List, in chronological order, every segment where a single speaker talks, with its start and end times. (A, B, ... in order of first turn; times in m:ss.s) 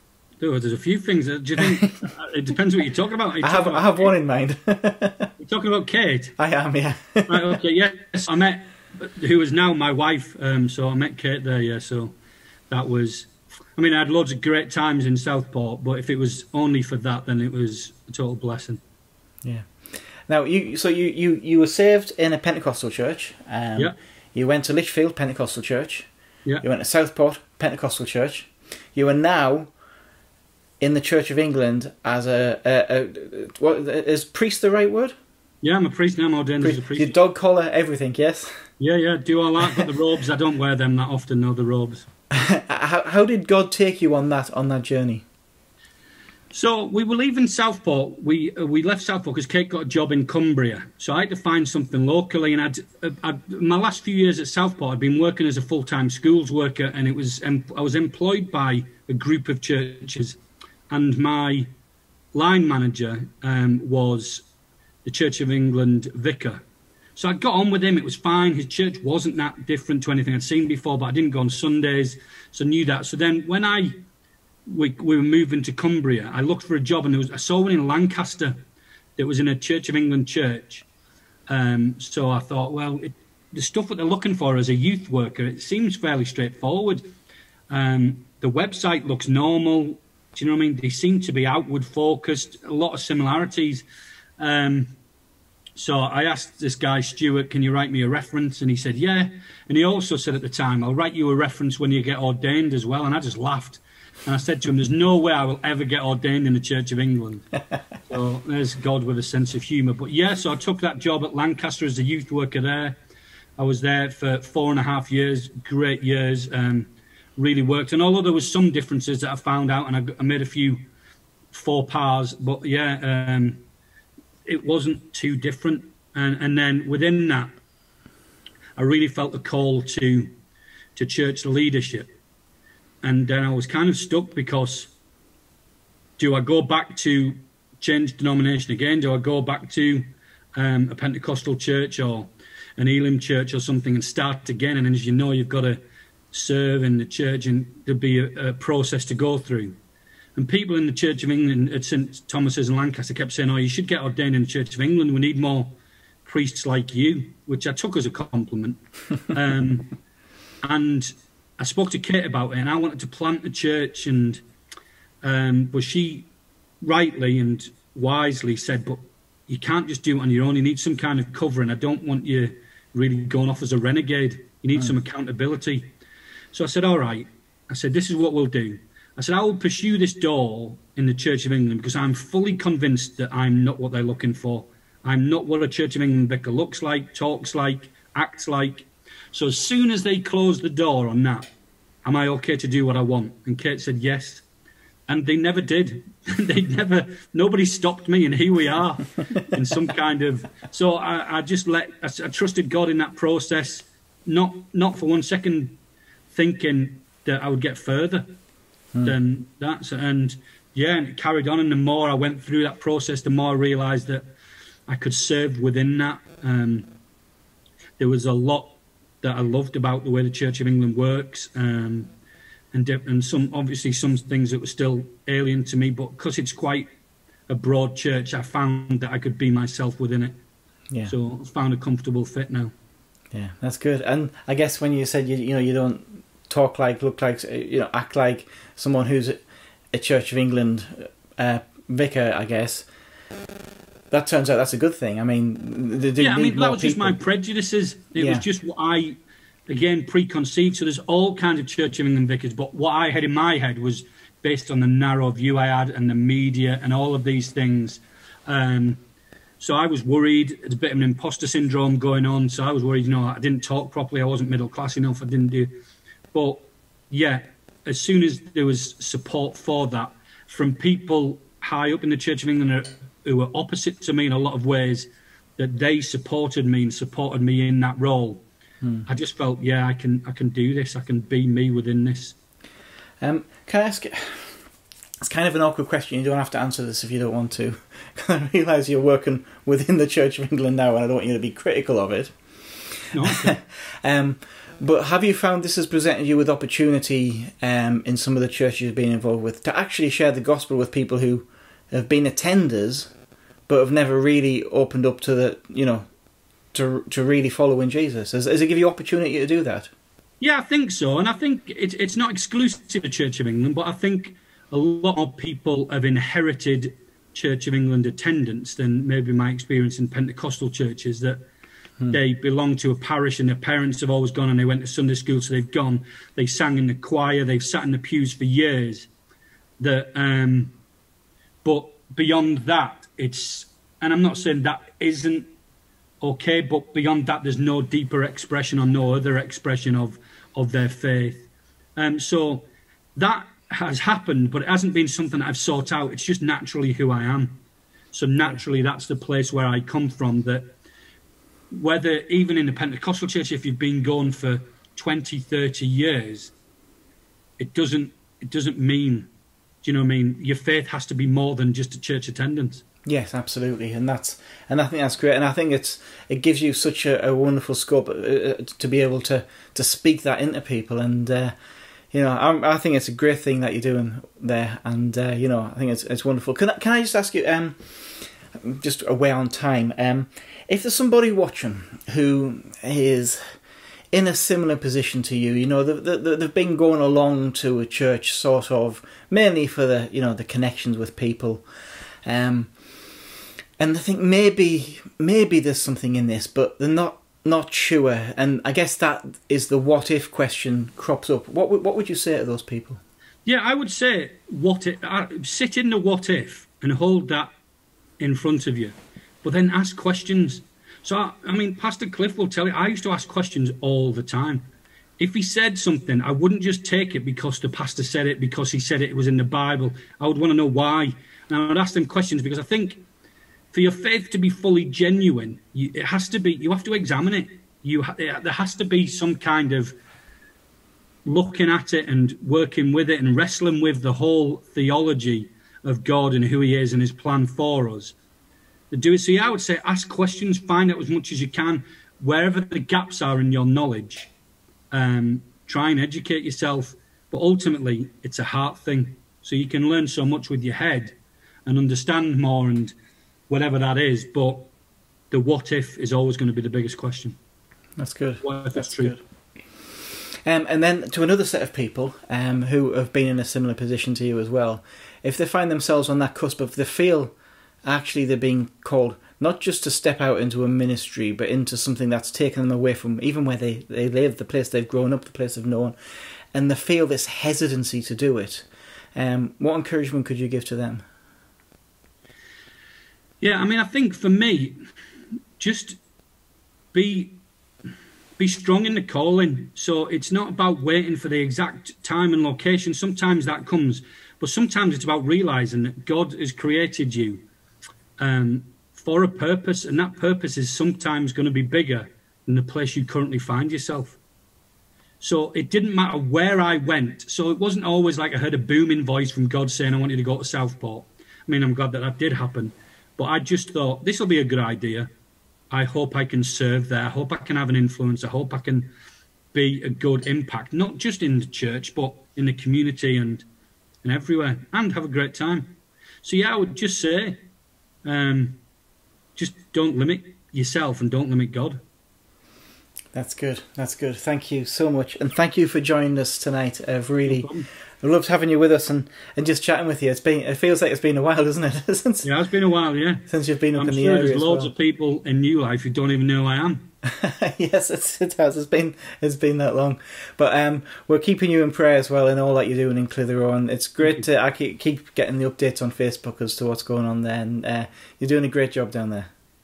0:00.4-0:04.1 A
0:03.4-0:05.3 B
0:05.4-0:06.4 A
0:06.4-0:07.6 B
0:07.3-0:12.1 A
0:12.7-0:18.8 A
0:20.3-0:26.1 B
0:26.6-0:29.7 B
0:30.8-0:35.1 B
0:35.6-0:37.2 A
0:36.6-0:38.5 B
0:38.8-0:42.1 A
0:42.3-0:45.2 B
0:46.5-1:00.4 A
1:00.9-1:01.7 A
1:02.3-1:04.5 A
1:05.0-1:06.6 A
1:07.2-1:14.0 A
1:14.7-1:18.6 A
1:19.2-1:20.9 A
1:21.5-1:27.0 A
1:27.7-1:33.8 A
1:34.4-1:35.0 A
1:35.8-1:47.4 A
1:48.1-1:53.0 A
1:53.6-2:00.8 A
2:01.5-2:03.6 A
2:04.5-2:07.5 A
2:08.8-2:10.3 A
2:11.0-2:12.1 A
2:13.0-2:14.9 A
2:16.2-2:25.8 A
2:26.3-2:29.8 A
2:30.4-2:38.8 A
2:39.3-2:39.9 A
2:40.6-2:44.4 A
2:45.2-2:46.3 A
2:46.8-2:55.9 A
2:56.5-3:11.5 A
3:12.0-3:14.4 A
3:15.1-3:25.8 A
3:26.3-3:28.3 A
3:29.0-3:34.3 A
3:34.9-3:36.9 A
3:38.0-3:42.1 A
3:42.7-3:46.9 A
3:47.5-3:50.4 A
3:51.1-3:52.7 A
3:53.3-3:59.4 B
3:59.9-4:02.9 B
4:04.1-4:07.2 B
4:06.2-4:19.0 A
4:08.2-4:08.4 B
4:19.6-4:25.7 A
4:26.3-4:38.4 A
4:38.8-4:39.1 B
4:39.1-4:42.4 A
4:43.2-4:44.6 B
4:45.2-4:52.4 B
4:53.1-4:53.6 A
4:53.3-5:03.1 B
5:03.7-5:06.1 B
5:06.7-5:09.9 B
5:10.4-5:21.4 A
5:22.1-5:29.1 A
5:29.8-5:30.7 A
5:31.6-5:35.5 A
5:36.2-5:47.6 A
5:48.1-5:50.6 A
5:51.7-5:56.5 A
5:57.6-5:59.3 A
5:59.8-6:02.8 A
6:03.1-6:11.5 B
6:12.1-6:18.0 B
6:18.6-6:23.6 B
6:24.1-6:31.7 B
6:32.3-6:32.7 B
6:33.8-6:43.0 B
6:43.5-6:47.5 A
6:48.2-6:54.7 A
6:55.2-7:03.0 A
7:03.7-7:09.9 A
7:11.2-7:18.2 A
7:18.9-7:24.3 A
7:24.9-7:31.2 A
7:31.7-7:32.9 A
7:33.5-7:34.7 A
7:35.3-7:37.4 A
7:38.0-7:39.2 B
7:38.4-7:39.2 A
7:40.5-7:47.3 B
7:47.8-7:56.0 B
7:56.5-8:01.0 B
8:03.4-8:04.8 A
8:05.6-8:06.0 A
8:06.9-8:07.4 A
8:08.4-8:17.4 A
8:18.2-8:24.2 A
8:25.2-8:35.1 A
8:35.7-8:38.9 A
8:39.5-8:43.4 A
8:44.0-8:47.4 A
8:48.0-8:48.6 A
8:49.4-8:51.8 A
8:53.1-8:57.5 B
8:57.3-8:57.7 A
8:58.0-9:02.3 B
9:02.2-9:06.9 A
9:03.3-9:04.7 B
9:07.0-9:19.3 B